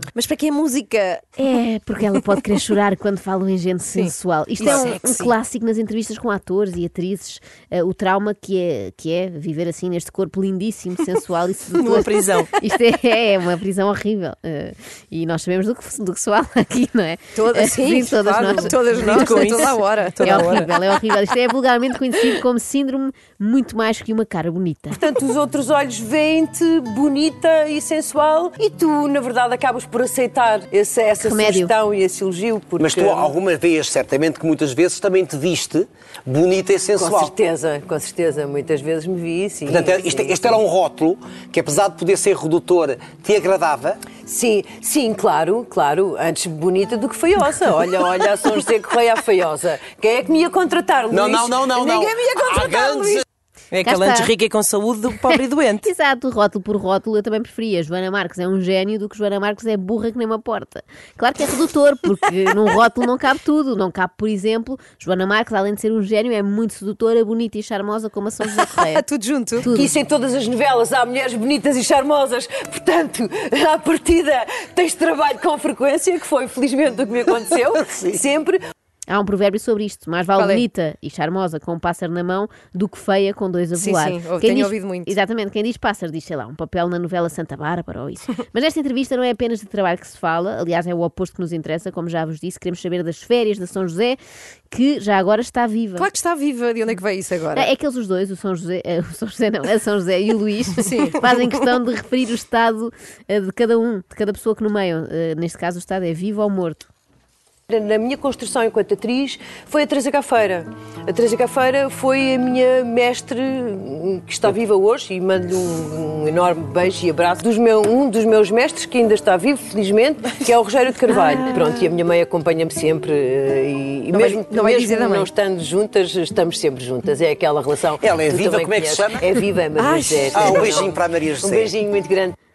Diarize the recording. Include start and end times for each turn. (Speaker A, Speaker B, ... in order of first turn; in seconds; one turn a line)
Speaker A: 0.1-1.3
Speaker B: 1.4-25.0
Speaker A: 3.9-5.3
Speaker C: 11.8-12.5
Speaker A: 17.3-20.7
Speaker C: 18.7-20.7
Speaker D: 24.9-33.3
Speaker B: 31.2-31.7
Speaker E: 32.8-37.3
Speaker D: 37.0-40.4
Speaker E: 39.6-44.0
Speaker D: 44.2-53.2
Speaker E: 51.1-53.2
Speaker C: 53.7-55.9
Speaker B: 53.8-54.3
Speaker B: 55.8-69.1
Speaker A: 68.6-69.7
Speaker B: 69.6-69.9
Speaker D: 69.7-78.6
Speaker B: 79.1-94.2
Speaker A: 80.3-80.7
Speaker A: 83.7-85.1
Speaker B: 94.7-96.1
Speaker A: 96.0-97.7
Speaker B: 97.5-106.9
Speaker A: 100.8-101.2
Speaker D: 107.7-132.3
Speaker A: 121.1-121.7
Speaker A: 124.1-125.3
Speaker E: 128.0-129.3
Speaker A: 129.7-130.8
Speaker E: 130.3-131.7